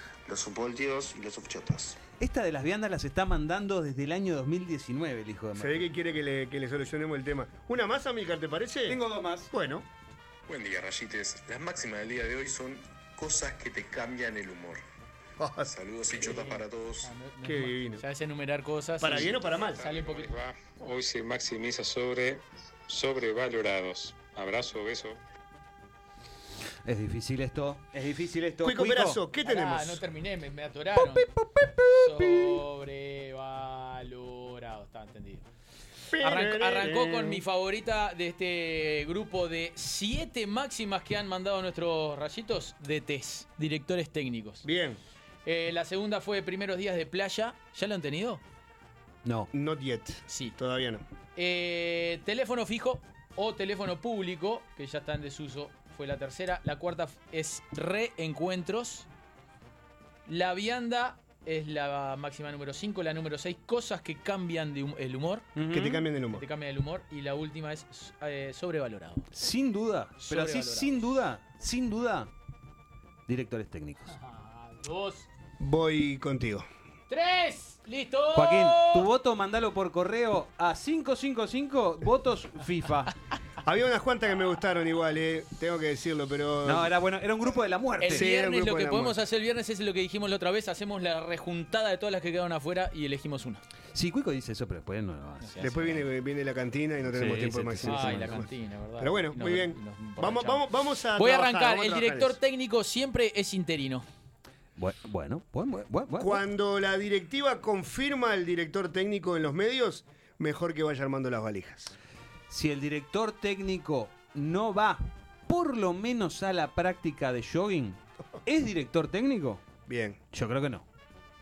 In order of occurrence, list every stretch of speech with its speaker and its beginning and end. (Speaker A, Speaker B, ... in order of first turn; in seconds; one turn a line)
Speaker A: 0.2-2.0
Speaker B: 2.2-5.8
Speaker C: 5.5-9.8
Speaker B: 8.8-9.5
Speaker A: 10.5-14.8
Speaker C: 15.4-15.8
Speaker A: 15.7-17.1
Speaker D: 16.1-20.4
Speaker C: 17.4-18.0
Speaker C: 19.0-19.9
Speaker E: 19.8-25.2
Speaker B: 26.8-29.2
Speaker C: 28.6-30.0
Speaker D: 29.4-35.4
Speaker C: 36.1-37.4
Speaker D: 36.2-44.6
Speaker C: 44.6-45.0
Speaker D: 45.4-48.4
Speaker B: 49.2-49.5
Speaker C: 49.5-51.0
Speaker D: 50.3-50.5
Speaker D: 51.4-59.1
Speaker D: 60.2-65.5
Speaker B: 65.5-66.0
Speaker C: 65.7-66.4
Speaker D: 66.3-69.3
Speaker B: 69.3-72.3
Speaker D: 70.2-71.2
Speaker B: 73.3-74.1
Speaker D: 74.1-75.3
Speaker C: 75.6-76.7
Speaker D: 77.1-79.1
Speaker B: 78.3-83.1
Speaker C: 83.6-86.9
Speaker B: 86.6-88.3
Speaker D: 88.0-93.6
Speaker C: 88.0-89.2
Speaker B: 93.9-95.5
Speaker D: 95.4-96.1
Speaker C: 95.6-102.4
Speaker B: 97.1-98.4
Speaker D: 97.8-104.0
Speaker B: 104.8-106.4
Speaker C: 106.2-111.9
Speaker B: 112.5-119.6
Speaker C: 119.9-120.2
Speaker B: 120.3-120.8